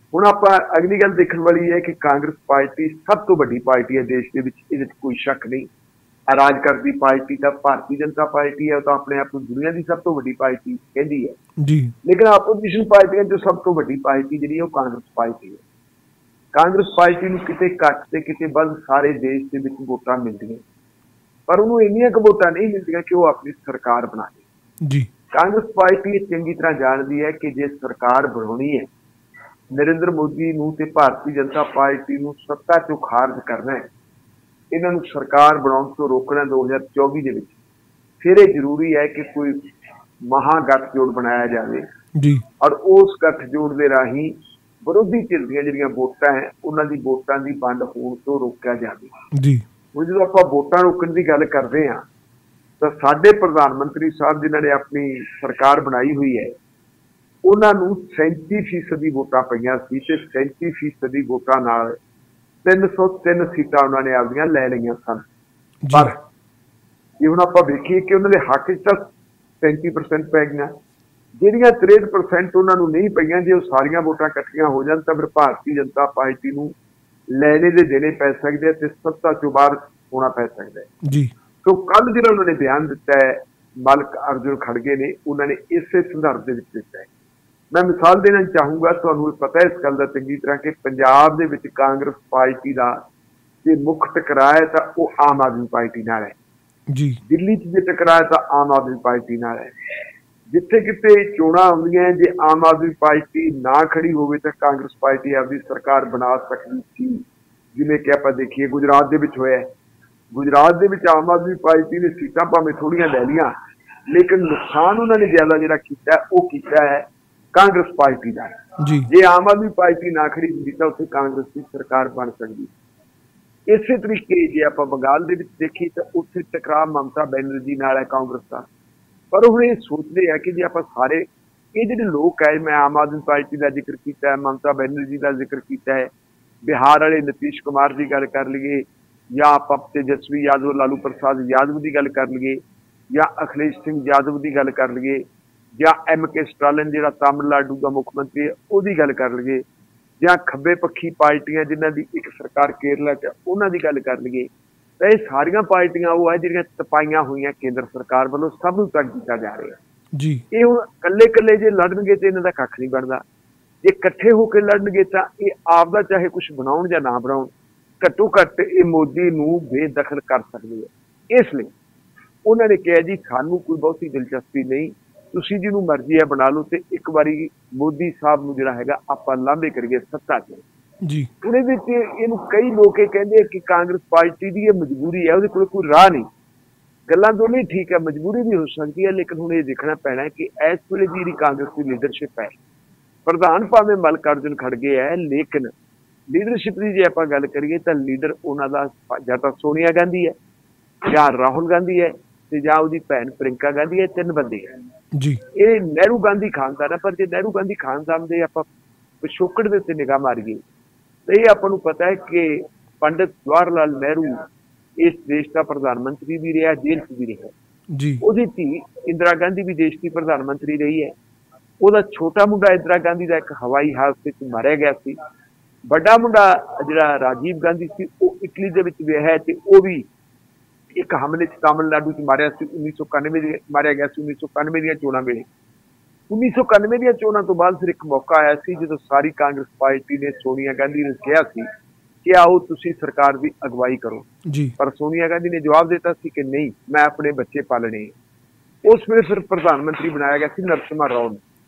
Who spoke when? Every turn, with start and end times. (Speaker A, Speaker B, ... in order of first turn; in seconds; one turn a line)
Speaker A: 0.1-5.7
Speaker A: 6.3-11.4
Speaker B: 11.6-11.9
Speaker A: 12.0-15.6
Speaker A: 16.5-20.6
Speaker A: 21.5-24.4
Speaker B: 24.8-25.1
Speaker A: 25.3-28.9
Speaker A: 29.7-33.9
Speaker A: 34.7-37.5
Speaker A: 38.2-39.7
Speaker A: 40.3-41.9
Speaker B: 42.1-42.4
Speaker A: 42.6-49.1
Speaker B: 49.3-49.6
Speaker A: 49.9-52.0
Speaker A: 52.8-56.5
Speaker A: 57.4-62.0
Speaker A: 62.6-65.2
Speaker B: 65.8-66.1
Speaker A: 65.9-66.2
Speaker A: 67.2-69.1
Speaker A: 69.6-70.8
Speaker A: 71.4-76.7
Speaker A: 77.3-80.9
Speaker B: 81.0-81.3
Speaker A: 81.6-87.1
Speaker A: 87.7-93.0
Speaker A: 93.7-96.4
Speaker B: 96.9-97.2
Speaker A: 97.3-99.7
Speaker A: 100.5-109.7
Speaker A: 110.3-113.5
Speaker A: 114.1-122.7
Speaker B: 118.8-119.1
Speaker A: 123.7-128.7
Speaker A: 129.3-136.1
Speaker A: 136.7-142.6
Speaker A: 143.1-145.2
Speaker A: 145.8-149.6
Speaker A: 150.2-154.5
Speaker A: 155.0-159.8
Speaker B: 160.1-160.4
Speaker A: 160.5-163.2
Speaker A: 163.8-171.7
Speaker A: 172.4-180.6
Speaker B: 181.0-181.3
Speaker A: 181.4-186.3
Speaker A: 187.1-192.5
Speaker A: 193.3-195.7
Speaker A: 196.3-200.3
Speaker A: 201.0-204.7
Speaker B: 205.1-205.4
Speaker A: 205.6-208.7
Speaker A: 209.2-210.6
Speaker A: 211.3-214.5
Speaker A: 215.0-217.5
Speaker B: 217.9-218.2
Speaker A: 218.2-221.2
Speaker A: 221.8-225.2
Speaker A: 225.9-230.1
Speaker A: 230.9-235.4
Speaker A: 236.3-241.7
Speaker A: 242.2-244.3
Speaker B: 244.4-244.7
Speaker A: 244.8-248.1
Speaker A: 248.8-251.4